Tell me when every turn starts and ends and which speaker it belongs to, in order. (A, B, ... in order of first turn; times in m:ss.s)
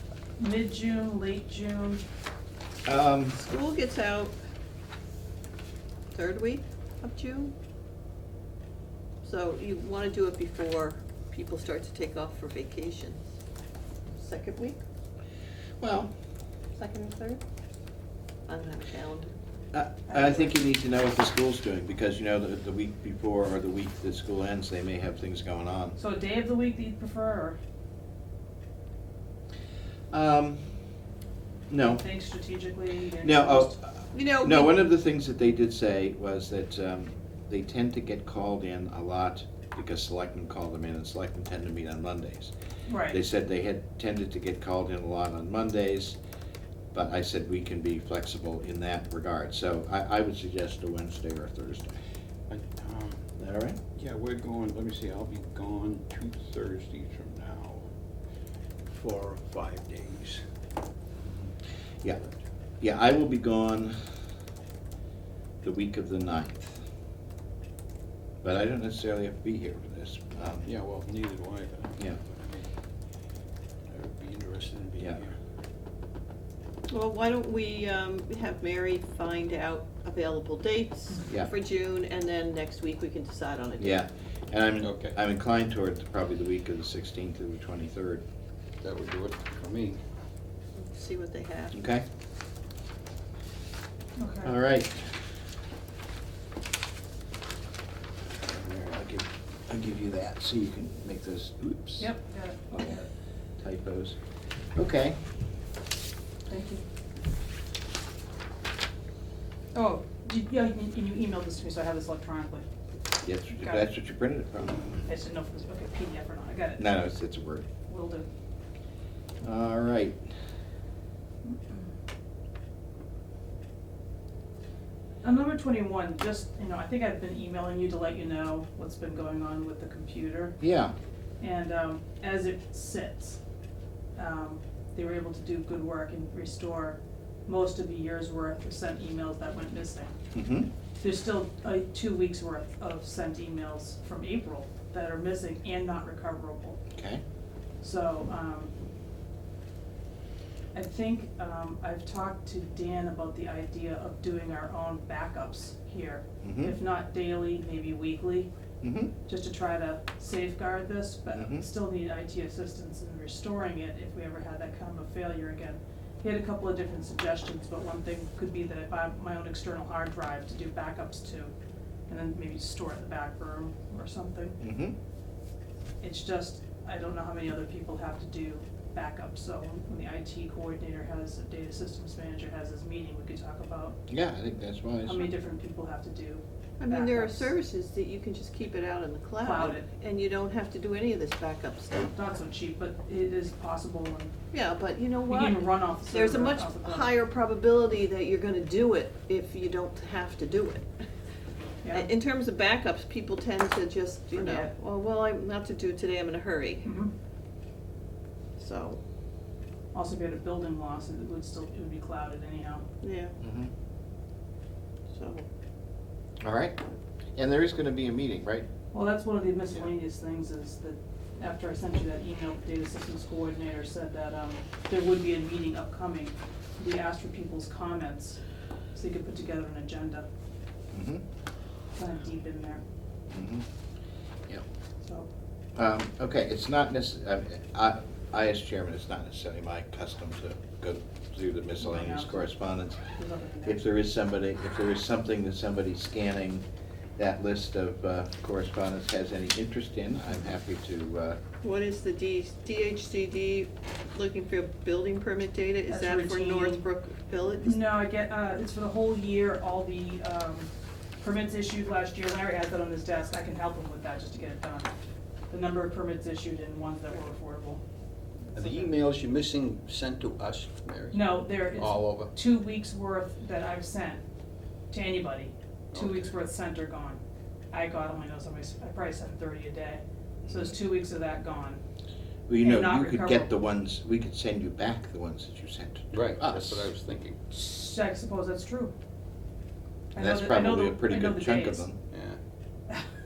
0:00.4-0:02.0 A
0:02.8-0:03.4 B
0:03.4-0:04.3 C
0:06.1-0:07.5 C
0:09.2-0:13.3 C
0:14.1-0:14.8 C
0:15.8-0:16.1 B
0:16.8-0:17.4 C
0:18.5-0:19.3 C
0:19.7-0:26.0 B
0:20.1-0:20.6 A
0:26.0-0:27.6 A
0:30.1-0:30.6 B
0:31.7-0:32.0 B
0:31.8-0:33.7 A
0:33.2-0:42.5 B
0:34.1-0:34.7 C
0:42.9-0:43.2 A
0:43.1-0:46.2 B
0:46.9-0:52.0 B
0:52.5-0:53.2 D
0:53.4-0:53.8 B
0:53.9-0:57.9 D
0:58.9-1:00.4 D
1:02.8-1:03.9 B
1:05.6-1:06.8 B
1:08.4-1:10.7 B
1:10.6-1:12.7 D
1:13.9-1:15.4 D
1:16.9-1:24.0 C
1:23.8-1:28.2 B
1:24.8-1:25.1 D
1:28.8-1:30.0 D
1:30.8-1:31.7 C
1:31.7-1:32.0 B
1:34.2-1:34.6 A
1:34.4-1:35.2 B
1:38.4-1:42.1 B
1:42.0-1:43.1 A
1:43.6-1:44.2 B
1:44.7-1:45.2 B
1:46.5-1:46.8 A
1:49.7-1:52.6 A
1:53.2-1:54.9 B
1:53.6-1:53.9 A
1:55.0-1:57.1 A
1:56.8-1:57.6 B
1:57.9-1:58.3 A
1:59.4-2:00.2 B
2:01.4-2:01.9 A
2:05.2-2:10.6 A
2:10.6-2:10.9 B
2:11.4-2:13.4 A
2:14.2-2:20.1 A
2:20.3-2:20.7 B
2:21.0-2:26.8 A
2:26.9-2:27.2 B
2:27.8-2:28.7 A
2:30.7-2:38.5 A
2:36.4-2:36.8 B
2:38.8-2:39.1 B
2:39.2-2:51.5 A
2:41.3-2:41.6 B
2:52.1-2:54.6 A
2:54.6-2:54.9 B
2:56.0-3:04.0 A
3:04.1-3:05.3 B
3:05.0-3:07.5 A
3:06.8-3:12.1 C
3:09.4-3:09.8 A
3:12.1-3:14.3 A
3:14.5-3:20.9 C
3:15.3-3:17.1 A
3:21.8-3:22.1 A
3:21.9-3:26.9 C
3:24.3-3:24.7 A
3:26.8-3:27.1 A
3:28.6-3:29.0 C
3:29.9-3:32.8 A
3:33.0-3:33.4 C
3:33.4-3:33.7 B
3:35.1-3:35.4 C
3:36.4-3:36.8 B
3:37.4-3:38.7 B
3:38.9-3:48.4 A
3:48.9-3:50.3 A
3:50.9-3:51.2 B
3:51.9-3:52.8 A
3:53.3-3:53.6 B
3:55.0-3:55.3 A
3:55.7-4:06.6 B
4:01.8-4:02.5 A
4:03.1-4:03.8 A
4:07.2-4:11.4 B
4:11.6-4:17.8 C
4:15.9-4:16.8 A
4:17.6-4:20.7 A
4:21.2-4:24.9 A
4:25.5-4:27.8 A
4:28.5-4:32.3 D
4:31.1-4:34.2 A
4:34.9-4:37.2 A
4:35.9-4:36.3 D
4:37.7-4:41.8 A
4:42.5-4:46.9 B
4:42.6-4:43.5 A
4:46.1-4:47.4 D
4:47.5-4:48.9 A
4:50.1-4:51.9 A
4:50.2-4:52.0 B
4:52.1-4:52.4 D